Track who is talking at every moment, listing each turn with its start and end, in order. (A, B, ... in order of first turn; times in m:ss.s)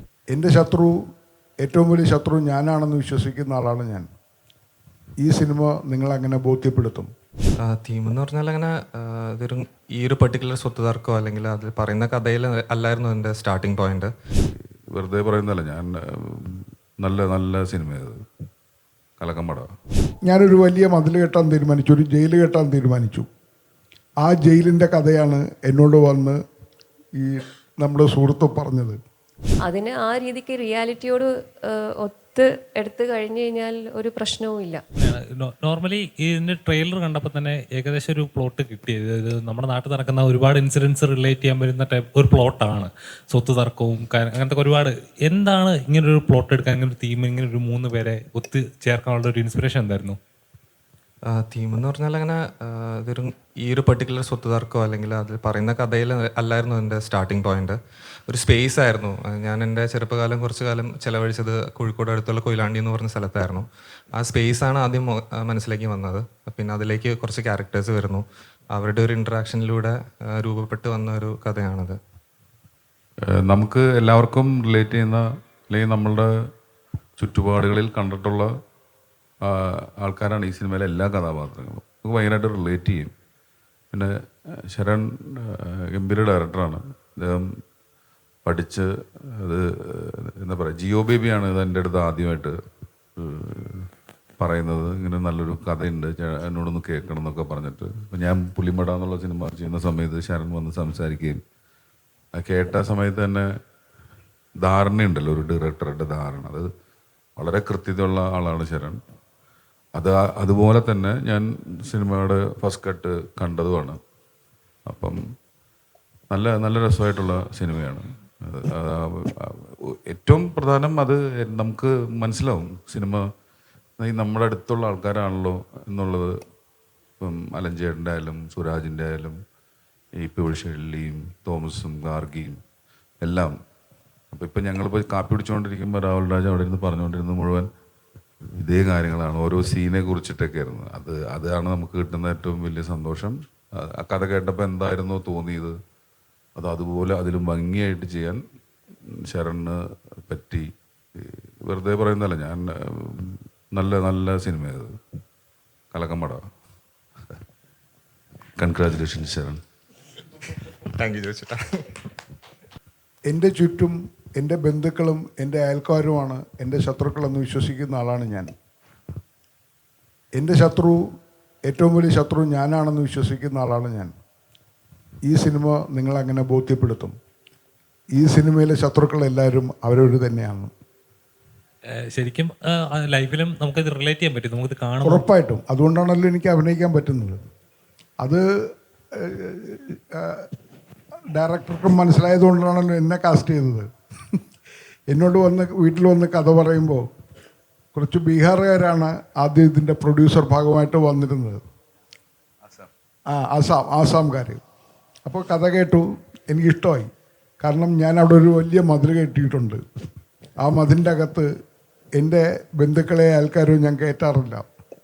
0:00.3-0:01.0 A
0:01.6-0:04.1 A
0:05.2-0:07.1 A
0:07.6-0:14.1 B
0:14.5-0:18.2 C
0:19.2-0:19.7 C
0:20.3-0:23.3 A
0:24.2-0:26.4 A
0:27.2-0:29.0 A
0:29.7-0:34.8 D
0:35.0-0:50.2 E
0:51.3-0:57.8 B
0:58.3-1:08.2 B
1:08.8-1:12.0 B
1:13.3-1:16.3 C
1:17.2-1:18.5 C
1:19.4-1:23.1 C
1:24.7-1:27.4 C
1:28.4-1:28.9 C
1:29.4-1:32.6 C
1:33.2-1:33.9 C
1:34.4-1:41.4 C
1:42.3-1:43.5 C
1:44.6-1:46.7 C
1:47.4-1:49.0 C
1:50.0-1:54.0 C
1:54.9-1:55.2 C
1:56.3-2:03.2 C
2:04.0-2:06.4 C
2:07.2-2:09.4 C
2:10.2-2:12.6 C
2:13.2-2:13.5 C
2:14.3-2:17.7 C
2:18.6-2:25.8 C
2:26.6-2:28.4 C
2:29.0-2:34.9 C
2:35.9-2:36.4 C
2:38.6-2:39.6 C
2:40.7-2:41.9 B
2:43.3-2:48.5 A
2:50.4-2:51.1 A
2:51.7-2:54.1 A
2:55.3-2:57.2 A
2:58.1-3:00.7 A
3:02.1-3:05.2 E
3:05.0-3:07.4 A
3:09.2-3:10.5 A
3:11.3-3:13.9 A
3:15.1-3:17.0 A
3:18.0-3:21.6 A
3:23.3-3:24.6 A
3:25.3-3:27.1 A
3:27.6-3:29.8 A
3:30.6-3:31.5 A
3:32.2-3:34.6 A